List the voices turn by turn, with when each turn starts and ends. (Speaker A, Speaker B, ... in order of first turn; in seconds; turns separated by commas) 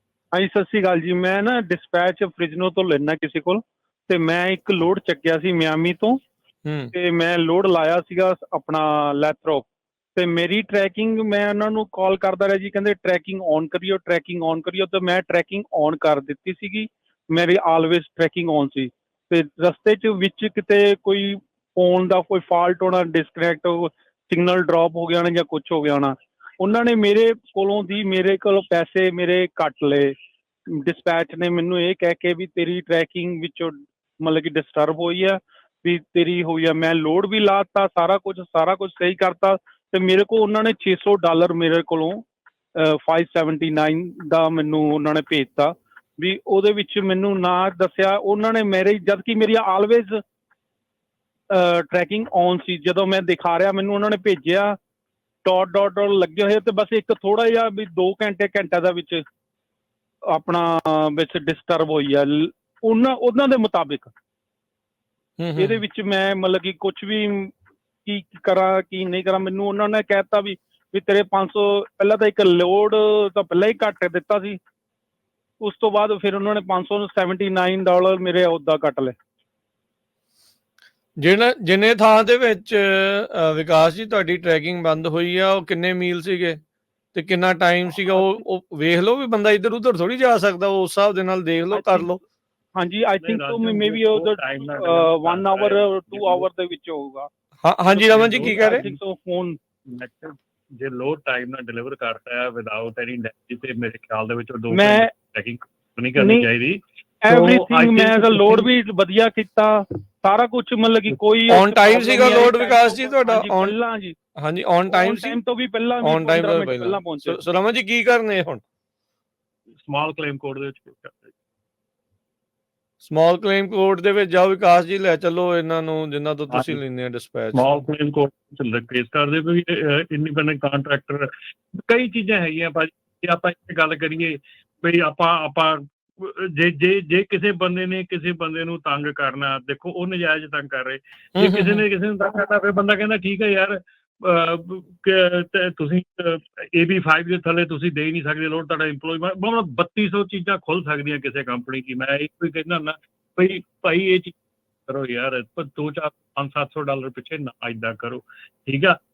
Speaker A: 0.3-6.2, Speaker B: 6.6-6.9, Speaker A: 6.9-30.1, Speaker A: 30.7-42.2, Speaker A: 42.8-50.2, Speaker A: 51.5-54.8, Speaker A: 55.4-59.2, Speaker A: 60.3-64.1, Speaker B: 65.4-65.8, Speaker A: 65.6-67.5, Speaker A: 68.0-74.6, Speaker A: 75.6-79.1, Speaker B: 81.2-86.6, Speaker B: 87.1-92.2, Speaker A: 91.7-92.1, Speaker A: 92.8-97.3, Speaker C: 93.2-96.5, Speaker B: 97.6-98.8, Speaker A: 97.9-99.6, Speaker C: 98.1-99.0, Speaker C: 99.9-108.7, Speaker A: 104.7-105.1, Speaker A: 106.2-106.5, Speaker A: 107.2-114.1, Speaker B: 111.5-113.7, Speaker B: 114.4-115.4, Speaker A: 114.9-117.4, Speaker B: 116.0-118.6, Speaker C: 119.8-121.3, Speaker B: 123.0-127.7, Speaker C: 126.5-126.8, Speaker C: 127.5-131.3, Speaker C: 131.8-158.9, Speaker B: 141.3-141.8